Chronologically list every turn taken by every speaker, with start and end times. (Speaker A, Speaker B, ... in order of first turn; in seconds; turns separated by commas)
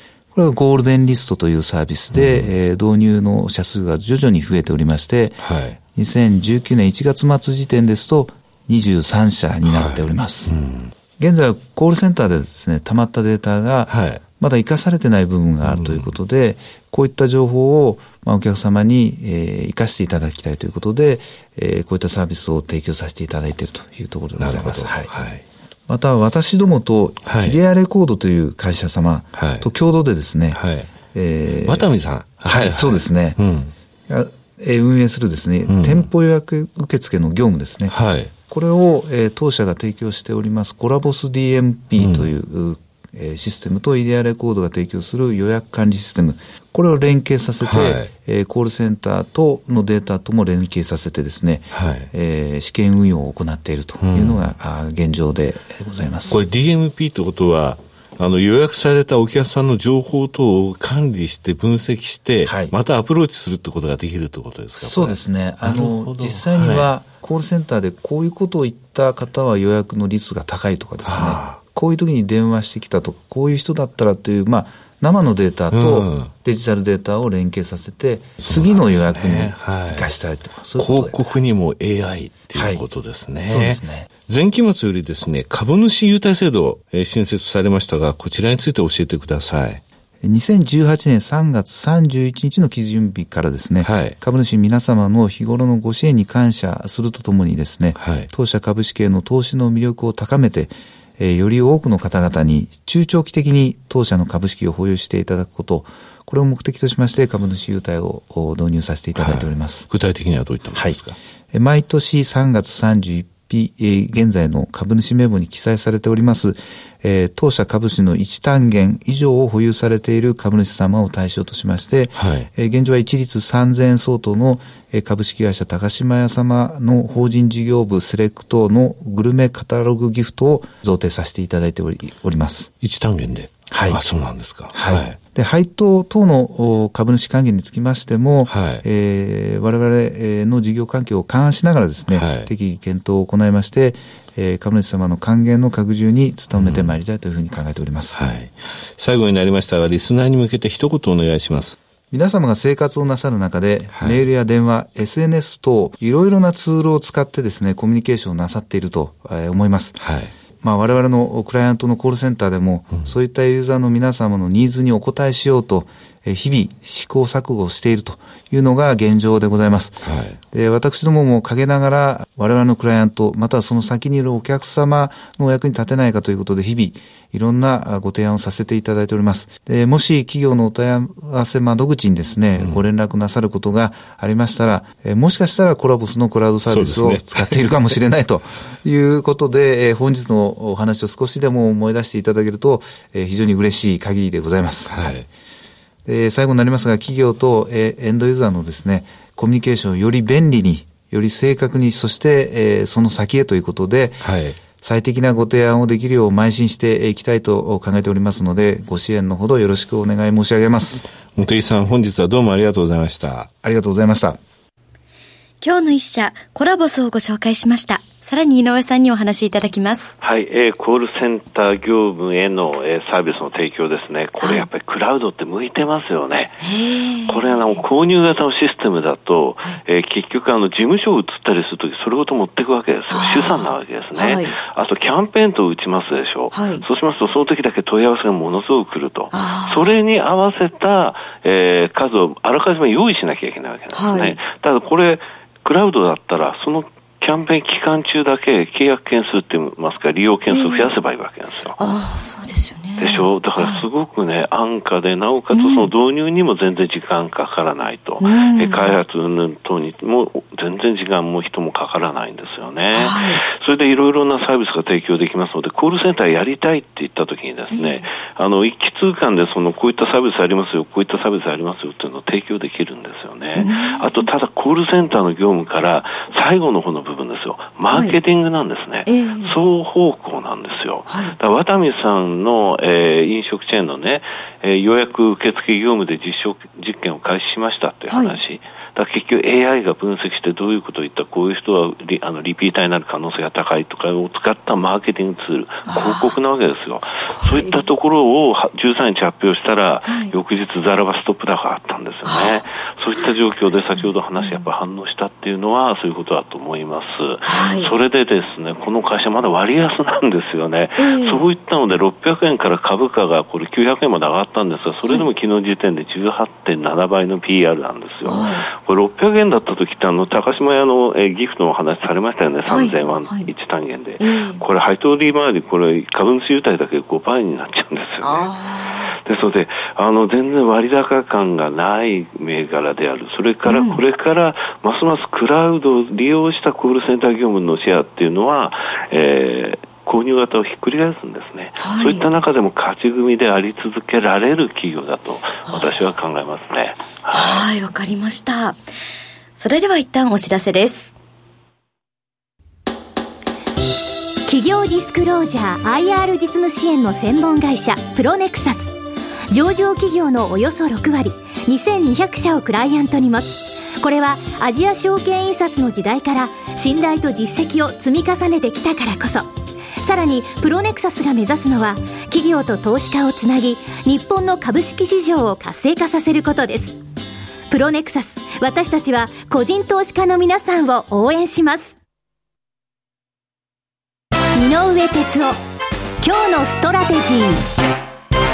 Speaker A: 0.3-10.5, Speaker B: 2.1-2.5, Speaker B: 5.4-5.8, Speaker B: 9.7-10.9, Speaker A: 11.2-25.1, Speaker B: 13.9-14.2, Speaker B: 15.6-16.1, Speaker B: 24.4-25.4, Speaker A: 25.9-31.9, Speaker B: 27.2-27.6, Speaker B: 29.3-29.7, Speaker B: 30.5-30.9, Speaker B: 31.5-33.7, Speaker A: 32.4-33.4, Speaker A: 34.1-56.4, Speaker B: 35.7-36.1, Speaker B: 37.9-38.3, Speaker B: 42.0-42.3, Speaker B: 47.6-48.1, Speaker B: 51.7-52.1, Speaker B: 54.0-54.5, Speaker B: 56.3-66.9, Speaker A: 62.4-62.7, Speaker A: 64.8-81.3, Speaker B: 71.0-71.6, Speaker B: 75.7-76.3, Speaker B: 78.4-80.1, Speaker B: 80.8-89.8, Speaker A: 82.5-82.8, Speaker A: 83.4-84.1, Speaker A: 90.2-109.9, Speaker B: 93.8-94.2, Speaker B: 97.9-98.3, Speaker B: 109.1-111.2, Speaker A: 110.7-111.0, Speaker A: 111.5-132.7, Speaker B: 122.1-122.5, Speaker B: 132.8-135.2, Speaker A: 133.7-134.0, Speaker A: 134.7-148.3, Speaker B: 138.4-138.8, Speaker B: 142.1-142.5, Speaker B: 146.5-146.9, Speaker B: 148.1-151.8, Speaker A: 152.1-160.1, Speaker B: 153.9-154.2, Speaker B: 160.0-160.3, Speaker A: 160.6-195.1, Speaker B: 170.0-170.4, Speaker B: 182.6-182.8, Speaker B: 186.6-187.7, Speaker B: 194.9-195.3, Speaker A: 196.0-211.1, Speaker B: 204.2-204.6, Speaker B: 211.3-213.5, Speaker A: 213.6-214.4, Speaker C: 215.6-220.1, Speaker D: 220.2-226.6, Speaker C: 224.4-224.7, Speaker C: 226.6-227.8, Speaker D: 227.2-251.8, Speaker C: 233.1-234.6, Speaker C: 236.5-236.8, Speaker C: 239.3-239.9, Speaker C: 243.9-244.4, Speaker C: 250.5-250.9, Speaker C: 251.8-253.8, Speaker D: 253.0-328.6, Speaker C: 255.5-255.9, Speaker C: 258.2-258.9, Speaker C: 262.9-263.4, Speaker C: 267.7-268.0, Speaker C: 273.6-274.2, Speaker C: 277.9-278.1, Speaker C: 279.1-279.5, Speaker C: 281.1-281.3, Speaker C: 288.1-288.4, Speaker C: 295.9-296.3, Speaker C: 297.4-297.7, Speaker C: 300.1-300.3, Speaker C: 302.2-302.6, Speaker C: 307.4-307.9, Speaker C: 311.0-311.4, Speaker C: 318.2-318.6, Speaker C: 322.6-323.5, Speaker C: 324.2-324.6, Speaker C: 328.2-329.1, Speaker D: 329.1-347.7, Speaker C: 333.7-334.0, Speaker C: 341.8-342.2, Speaker C: 347.3-348.8, Speaker C: 349.6-351.1, Speaker E: 354.4-358.9, Speaker E: 359.5-369.5, Speaker E: 370.0-377.0, Speaker E: 377.7-381.9, Speaker E: 384.5-385.5, Speaker E: 386.2-387.6